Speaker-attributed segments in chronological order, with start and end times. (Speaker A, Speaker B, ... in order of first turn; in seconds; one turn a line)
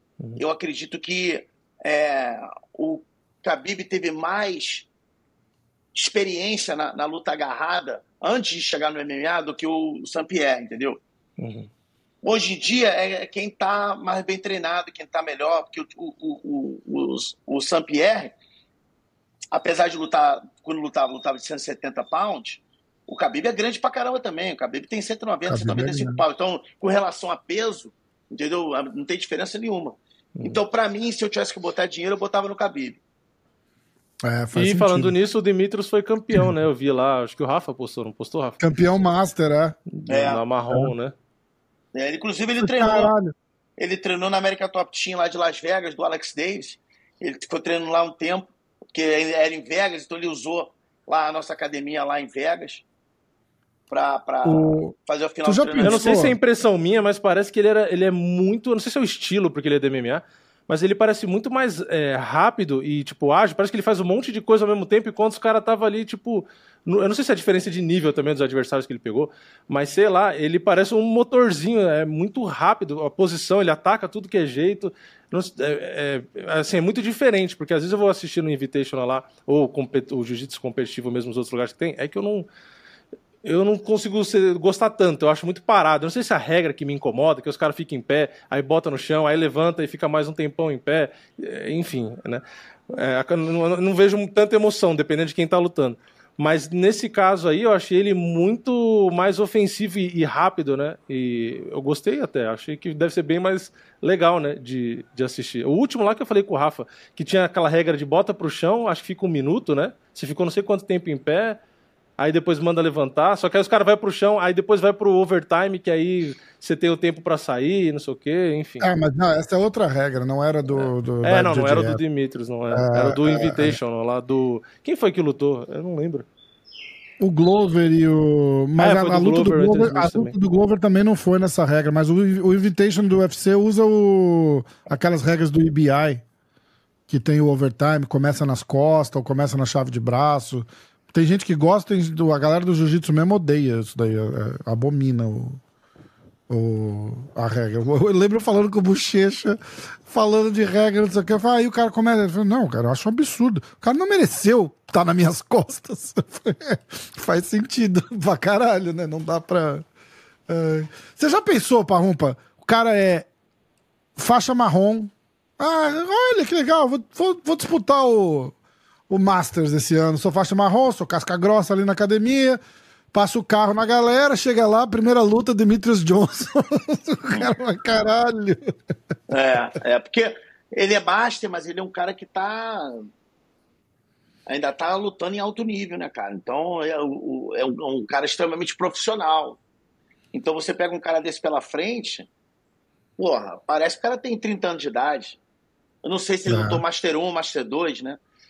Speaker A: 0.4-4.9
Speaker A: 5.9-11.0
Speaker B: 11.4-11.7
Speaker A: 12.2-18.4
Speaker A: 19.5-33.0
Speaker C: 25.5-26.2
Speaker C: 34.2-35.1
Speaker B: 34.5-38.6
Speaker C: 38.6-39.8
Speaker B: 39.9-41.1
Speaker A: 40.1-40.4
Speaker A: 41.9-43.1
Speaker C: 42.6-43.4
Speaker A: 43.8-52.8
Speaker A: 53.9-56.1
Speaker C: 54.4-56.4
Speaker B: 55.8-82.5
Speaker B: 83.4-111.6
Speaker B: 112.2-118.9
Speaker C: 118.8-122.0
Speaker B: 120.8-126.3
Speaker C: 122.7-123.8
Speaker C: 127.2-136.2
Speaker B: 128.8-130.3
Speaker C: 137.1-145.6
Speaker C: 146.5-159.9
Speaker C: 160.5-163.3
Speaker C: 164.2-168.6
Speaker C: 169.1-172.6
Speaker C: 173.1-178.8
Speaker A: 179.3-183.1
Speaker A: 184.5-189.6
Speaker A: 190.3-192.3
Speaker A: 193.2-195.4
Speaker A: 196.0-198.2
Speaker C: 196.4-196.8